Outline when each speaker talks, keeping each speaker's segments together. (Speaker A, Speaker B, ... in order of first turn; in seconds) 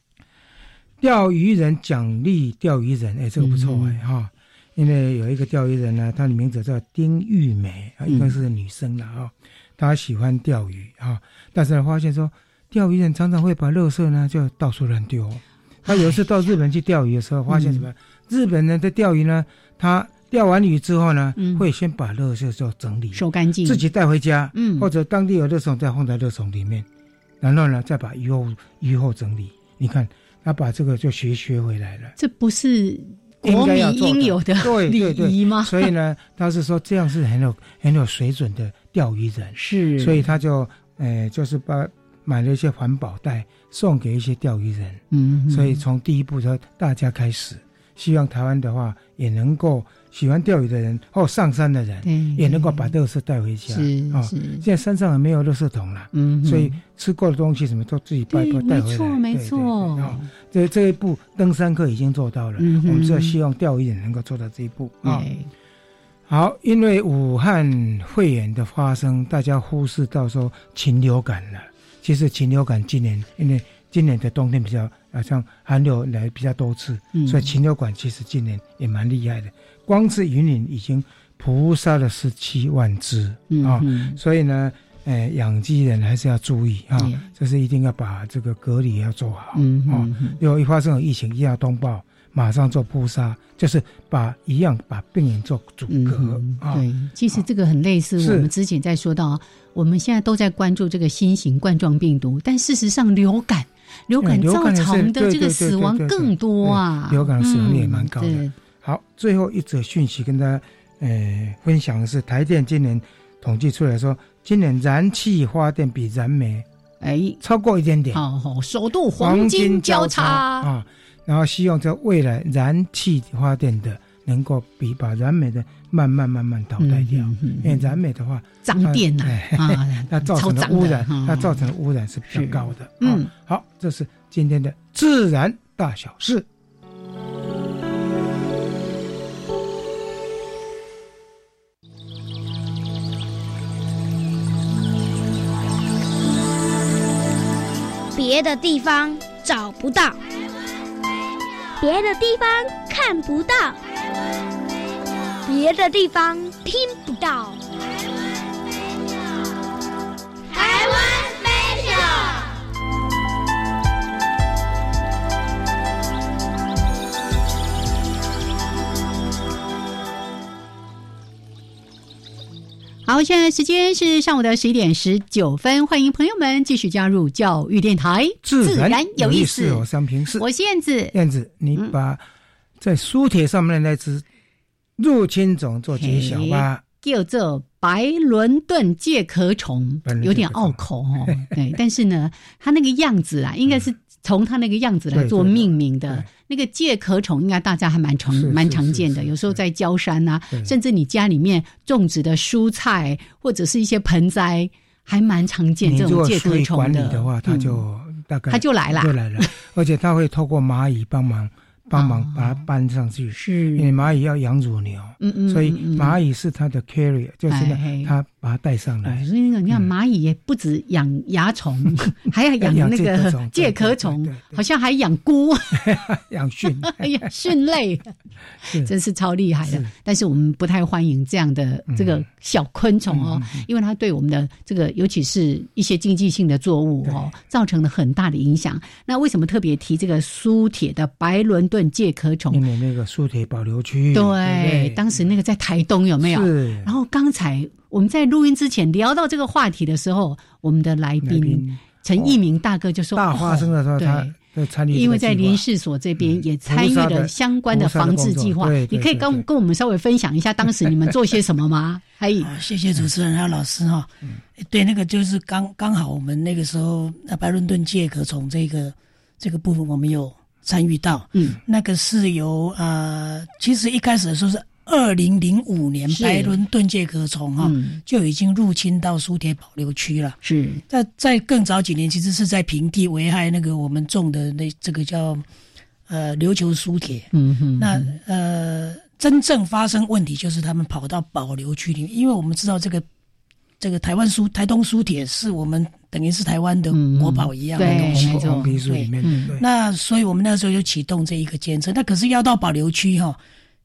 Speaker A: 1.0-26.9, 27.4-32.1, 33.4-65.3, 66.3-97.4, 98.2-98.5, 104.2-116.7, 117.4-118.2, 119.2-136.5, 178.4-180.5, 181.1-182.2, 182.8-184.2, 185.0-186.8, 190.1-191.5, 195.1-196.3, 198.3-199.6, 205.8-219.9, 222.6-224.6, 225.8-227.3, 231.9-232.2, 233.1-233.7, 237.0-237.3, 242.5-245.3, 246.2-246.9, 251.2-252.4, 253.1-255.6, 256.2-259.5, 297.8-299.6
Speaker B: 3.4-4.0, 8.1-8.3, 15.9-16.2, 17.5-17.9, 21.4-21.7, 23.1-23.8, 24.6-24.9, 32.2-35.9, 39.6-40.2, 45.1-45.8, 52.0-52.9, 53.7-54.6, 56.1-56.8, 58.3-60.3, 62.6-63.4, 65.0-65.5, 77.1-77.5, 83.5-84.2, 87.0-87.3, 89.5-90.4, 95.9-108.5, 117.0-117.4, 118.1-120.7, 126.8-127.8, 128.7-131.6, 132.3-133.3, 173.1-179.9, 180.4-181.2, 186.0-207.8, 208.5-209.5, 211.9-212.6, 213.3-213.9, 215.2-216.2, 217.5-218.1, 219.1-226.0, 226.8-242.6, 244.1-254.3, 254.9-262.5, 276.1-276.5, 277.6-278.0, 280.4-280.8, 287.3-288.2, 296.9-298.7, 299.2-299.5
Speaker C: 148.2-150.2, 151.8-153.8, 155.5-157.6, 160.5-162.5
Speaker D: 262.4-285.4, 286.1-293.1, 293.8-303.4